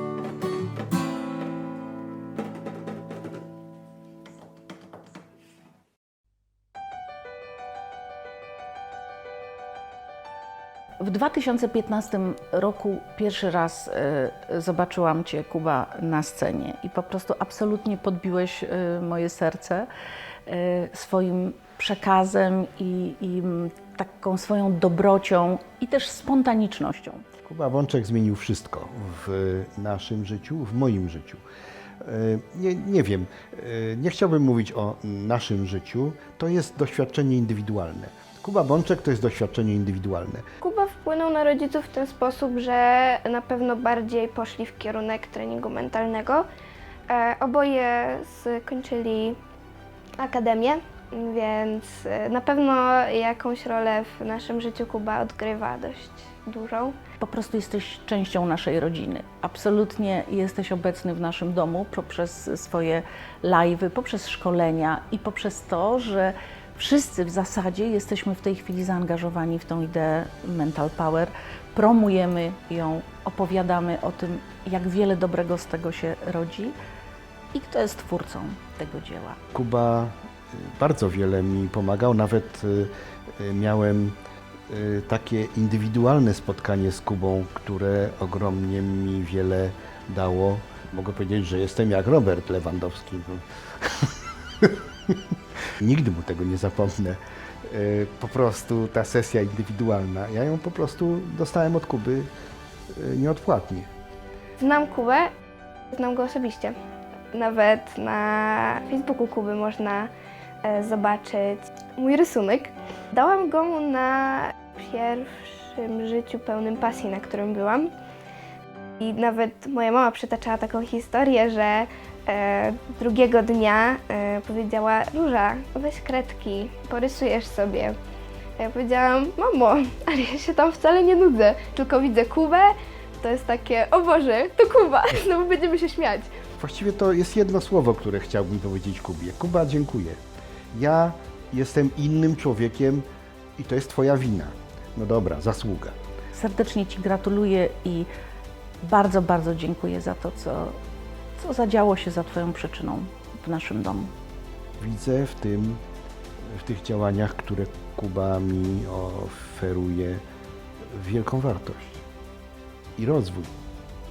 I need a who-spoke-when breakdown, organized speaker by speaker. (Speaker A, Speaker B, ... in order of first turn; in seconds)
Speaker A: 11.0-19.9, 20.5-27.2, 57.2-76.8, 77.5-79.4, 146.3-148.1, 148.8-150.8, 151.4-154.1
Speaker B: 27.4-31.4, 32.0-40.5, 79.5-84.2, 84.7-95.2, 95.8-102.3, 102.9-103.9, 136.6-140.2, 140.7-143.1, 143.6-146.0, 154.8-155.8, 156.4-160.2, 160.9-162.0, 163.0-163.5
Speaker C: 40.6-46.5, 47.1-49.4, 50.2-57.0, 104.6-105.3, 105.9-106.8, 107.3-110.1, 110.6-117.9, 119.0-128.0, 128.6-136.3